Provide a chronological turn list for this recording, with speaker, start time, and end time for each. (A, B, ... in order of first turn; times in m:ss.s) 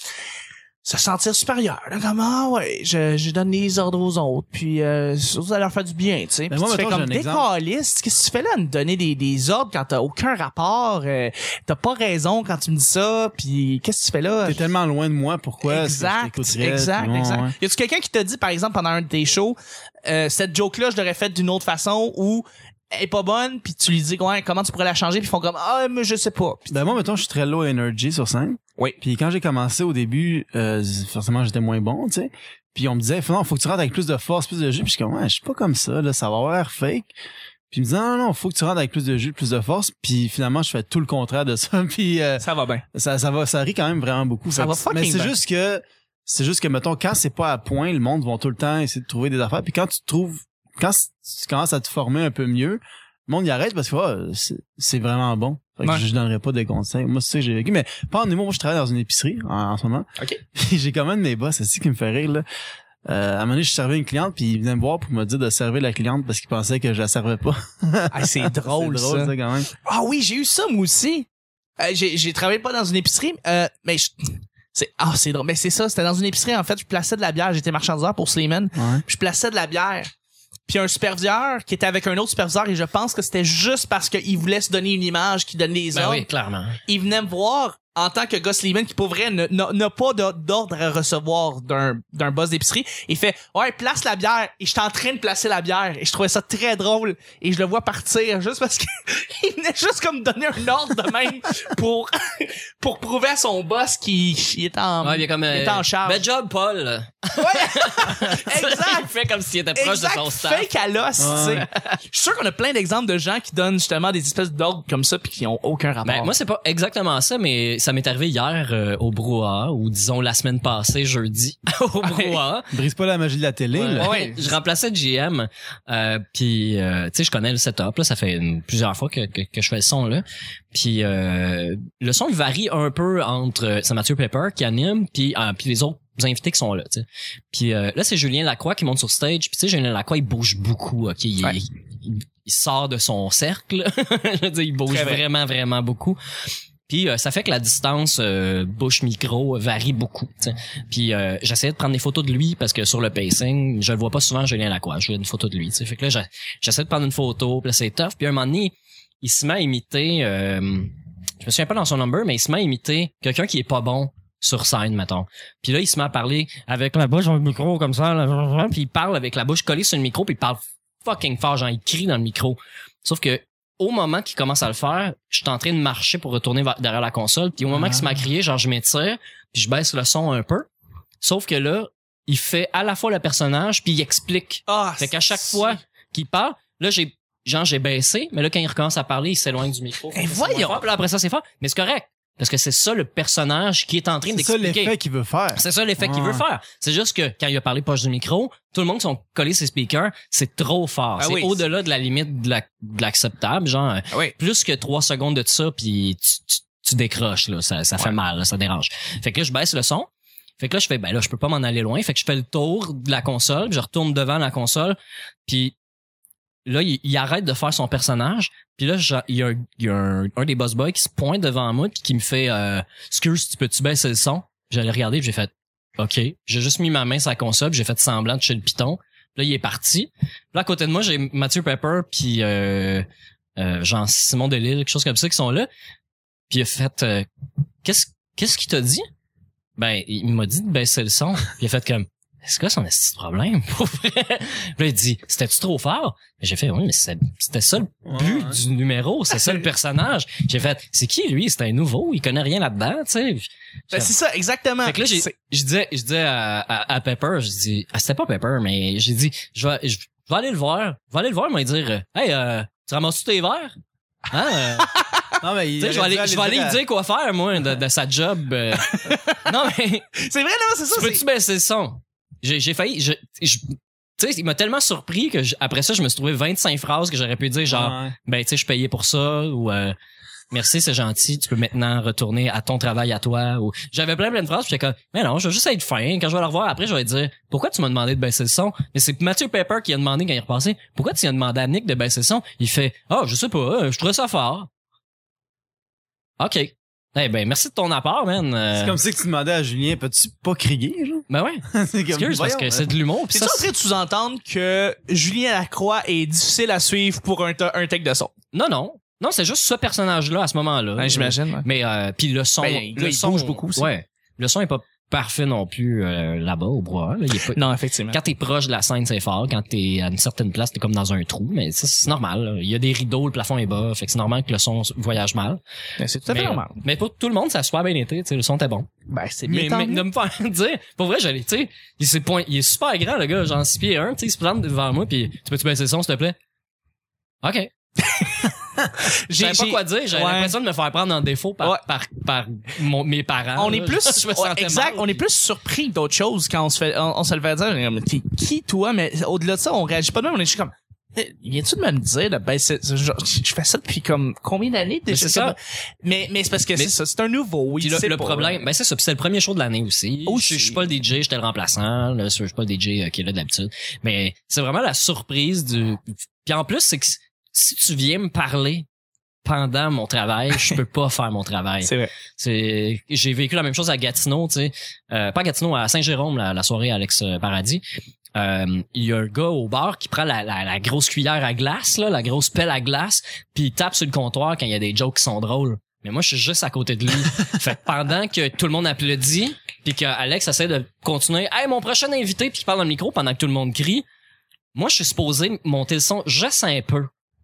0:00.8-0:14.7 A
0:06.5-0:07.5 B
0:14.4-0:17.5 B
0:15.6-0:26.8 A
0:26.7-0:37.1 B
0:37.7-1:02.4 B
0:42.4-0:42.8 A
0:44.5-0:45.4 A
1:03.0-1:09.7 B
1:08.1-1:11.3 A
1:11.8-1:14.1 A
1:14.7-1:20.1 A
1:18.8-1:19.0 B
1:20.7-1:26.2 A
1:25.9-1:26.8 C
1:26.9-1:46.2 A
1:45.0-1:50.7 C
1:47.4-1:49.1 A
1:49.8-1:56.3 A
1:51.2-1:51.6 B
1:51.3-1:51.9 C
1:56.0-2:02.7 C
2:02.0-2:02.4 A
2:02.7-2:04.1 B
2:03.8-2:26.2 C
2:03.9-2:04.5 A
2:24.9-2:25.2 A
2:26.9-3:00.7 C
2:57.7-2:58.0 B
3:01.2-3:14.9 C
3:04.7-3:05.8 A
3:10.2-3:10.8 A
3:14.3-3:16.4 B
3:15.5-3:30.1 C
3:21.2-3:21.6 A
3:30.6-3:35.7 C
3:36.7-3:53.1 C
3:53.6-3:55.7 C
3:56.5-3:57.3 C
3:57.8-3:59.0 C
3:59.8-4:14.1 C
4:08.1-4:08.6 B
4:09.4-4:09.6 A
4:13.9-4:15.3 A
4:14.8-4:23.7 C
4:24.3-4:24.9 C
4:24.5-4:25.4 A
4:25.4-4:26.8 B
4:25.8-4:30.1 C
4:28.8-4:31.2 A
4:30.9-4:40.0 C
4:37.7-4:38.1 B
4:40.5-4:54.7 C
4:56.4-4:59.0 C
4:58.7-5:02.9 B
5:01.3-5:03.7 C
5:03.3-5:08.3 A
5:08.5-5:25.6 C
5:11.0-5:11.6 A
5:12.6-5:13.9 A
5:17.5-5:18.2 A
5:26.0-5:26.8 A
5:26.3-5:28.9 C
5:29.1-5:30.0 A
5:29.5-5:36.4 C
5:37.4-5:37.7 C
5:38.0-5:40.6 A
5:39.3-5:45.2 C
5:43.6-5:58.6 A
5:55.1-5:55.6 C
5:57.8-6:08.9 C
6:00.3-6:00.9 A
6:09.4-6:17.8 C
6:11.8-6:12.1 A
6:18.4-6:34.0 C
6:34.8-6:37.1 C